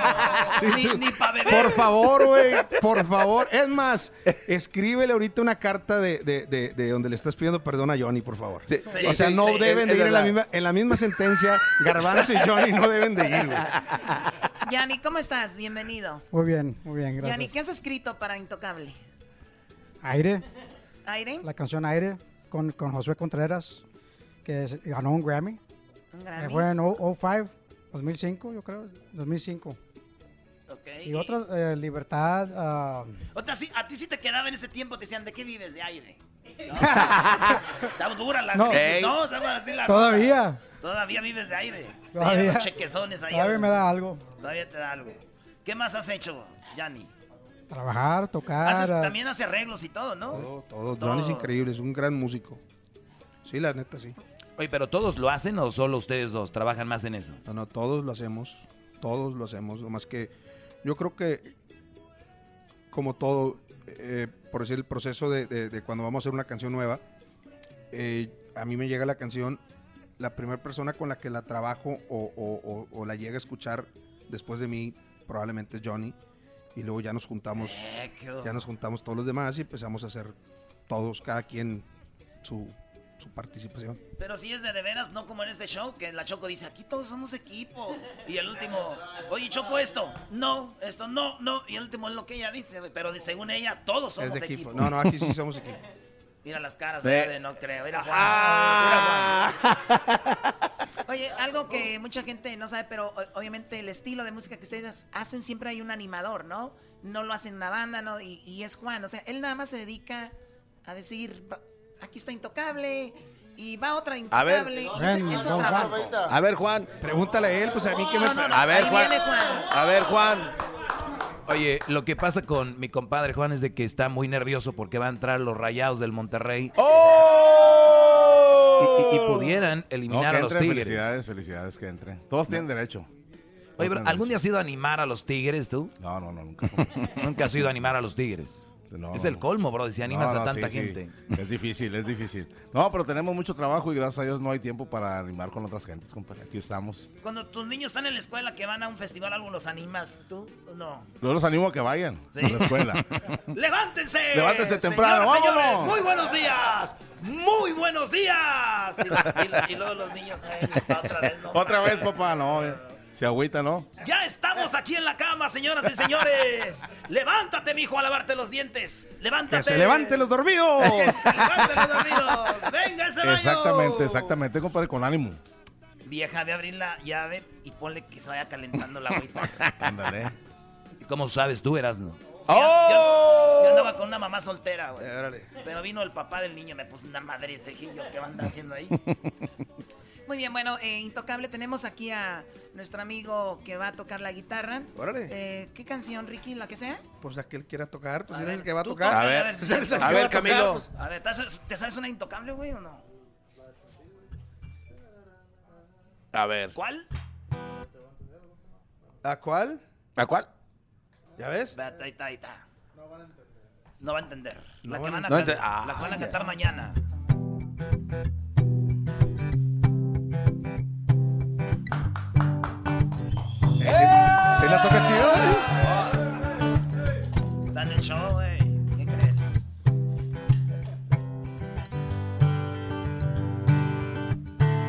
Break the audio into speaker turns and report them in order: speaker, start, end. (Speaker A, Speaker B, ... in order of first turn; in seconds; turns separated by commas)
Speaker A: 0.6-13.7, Speaker B: 0.6-2.0, Speaker C: 8.7-10.4, Speaker B: 8.9-9.7, Speaker D: 14.6-16.2, Speaker E: 16.3-17.5, Speaker D: 17.2-19.0, Speaker E: 20.0-20.4, Speaker D: 21.1-21.5, Speaker E: 21.4-23.8, Speaker E: 24.4-25.6, Speaker D: 26.1-26.7, Speaker E: 26.4-29.8, Speaker B: 30.7-31.4, Speaker E: 31.1-33.2, Speaker B: 33.3-36.9, Speaker B: 37.9-43.8, Speaker E: 38.5-38.9, Speaker C: 38.7-39.1, Speaker E: 39.9-40.6, Speaker E: 42.1-42.7, Speaker E: 43.3-44.2, Speaker B: 44.3-47.1, Speaker E: 47.7-49.1, Speaker B: 48.6-51.5, Speaker A: 50.3-52.6, Speaker A: 53.5-54.2, Speaker F: 54.6-57.4, Speaker A: 57.5-60.3, Speaker A: 60.8-61.5, Speaker A: 62.9-67.0, Speaker A: 67.9-69.6, Speaker A: 70.2-76.2, Speaker A: 76.8-77.8, Speaker B: 77.6-78.6, Speaker A: 78.4-80.3, Speaker A: 80.9-81.8, Speaker A: 82.4-84.0, Speaker B: 84.2-94.9, Speaker A: 94.2-95.8, Speaker B: 96.4-99.4, Speaker C: 97.0-97.3, Speaker C: 98.0-99.8, Speaker D: 101.1-110.3, Speaker D: 110.8-116.2, Speaker C: 114.3-114.8, Speaker E: 114.9-116.0, Speaker C: 116.3-116.9, Speaker A: 117.0-118.7, Speaker D: 118.2-119.7, Speaker C: 118.5-120.5, Speaker F: 121.5-126.7, Speaker C: 126.8-128.6, Speaker F: 128.8-131.2, Speaker G: 130.1-133.1, Speaker F: 133.8-135.9, Speaker G: 133.8-134.3, Speaker G: 136.0-137.1, Speaker F: 137.2-141.2, Speaker G: 138.9-139.5, Speaker G: 140.0-147.1, Speaker B: 147.2-151.1, Speaker G: 151.2-153.1, Speaker B: 152.3-152.9, Speaker B: 153.5-162.1, Speaker G: 154.3-156.0, Speaker G: 161.5-163.9, Speaker B: 164.0-174.3, Speaker A: 169.5-171.7, Speaker G: 173.2-175.4, Speaker B: 176.1-179.6, Speaker G: 179.8-180.3, Speaker F: 181.0-182.2, Speaker B: 182.4-189.0, Speaker C: 182.5-183.6, Speaker A: 185.0-185.5, Speaker D: 190.3-197.0, Speaker A: 195.0-195.3, Speaker A: 197.2-200.8, Speaker B: 198.3-203.0, Speaker C: 199.1-200.9, Speaker C: 206.3-206.7, Speaker B: 206.7-207.1, Speaker A: 209.2-209.8, Speaker C: 210.2-210.5, Speaker A: 211.4-211.8, Speaker B: 211.7-212.7, Speaker B: 214.0-217.0, Speaker A: 214.8-215.3, Speaker C: 215.3-216.3, Speaker A: 223.8-225.7, Speaker B: 227.7-229.6